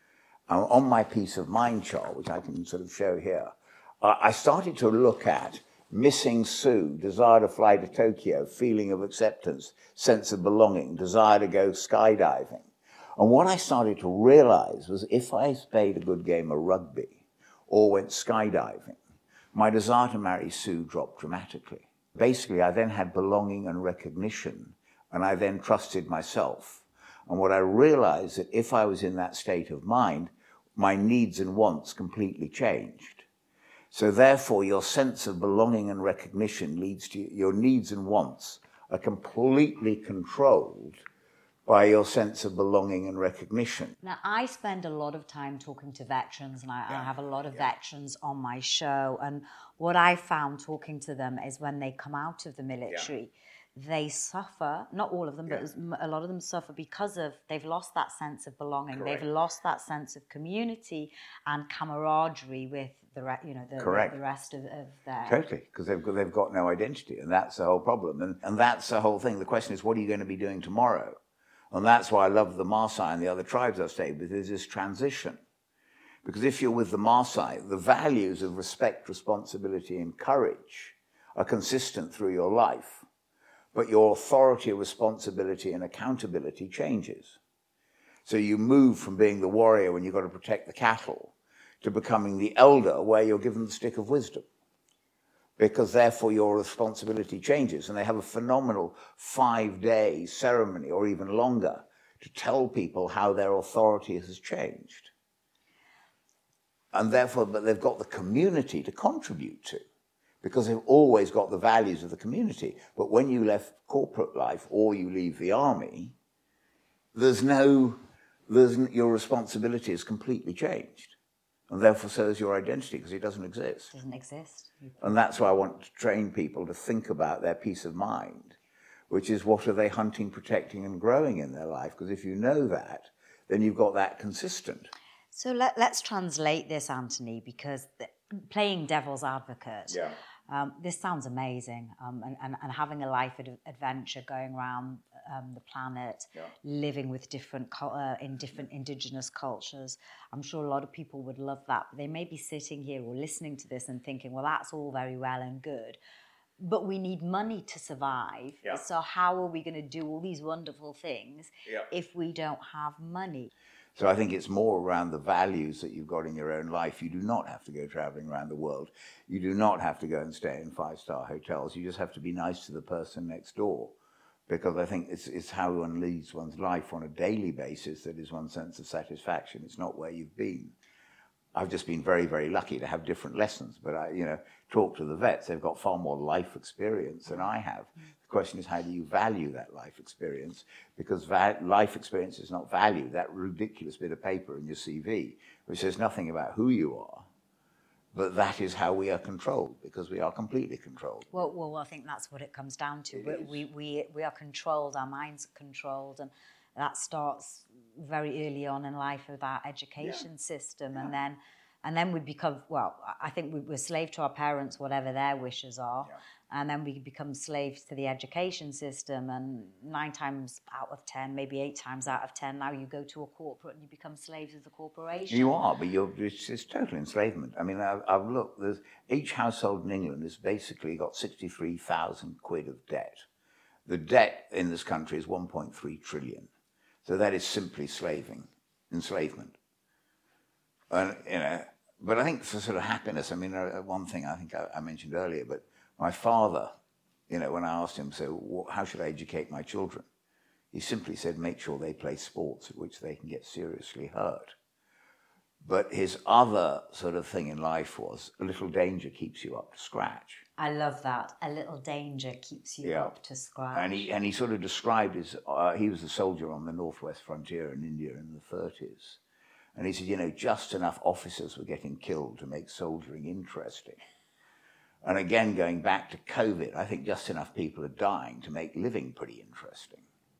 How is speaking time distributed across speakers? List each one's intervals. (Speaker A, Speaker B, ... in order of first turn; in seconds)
Speaker A: 0.5-19.0, 19.5-33.2, 33.9-41.0, 41.6-44.0, 46.9-47.7, 58.9-59.2, 63.8-64.1, 65.2-71.2, 71.7-75.4, 76.2-83.0, 83.7-87.4, 88.2-94.5, 95.6-105.1, 106.9-109.8, 110.4-116.1, 117.1-121.1, 121.7-123.9, 125.0-128.6, 129.1-134.9, 139.9-140.1, 163.9-173.9, 174.5-180.7, 181.5-197.3, 198.1-201.3, 203.1-203.6, 225.3-233.2, 233.8-236.5, 237.0-239.6, 240.9-246.7, 247.3-250.1, 250.7-254.5, 255.6-260.4, 262.8-263.1, 263.7-269.2, 269.7-274.0, 275.0-280.0
Speaker B: 44.0-65.4, 123.9-125.1, 135.3-156.0, 156.6-163.5, 201.3-225.6, 260.6-264.1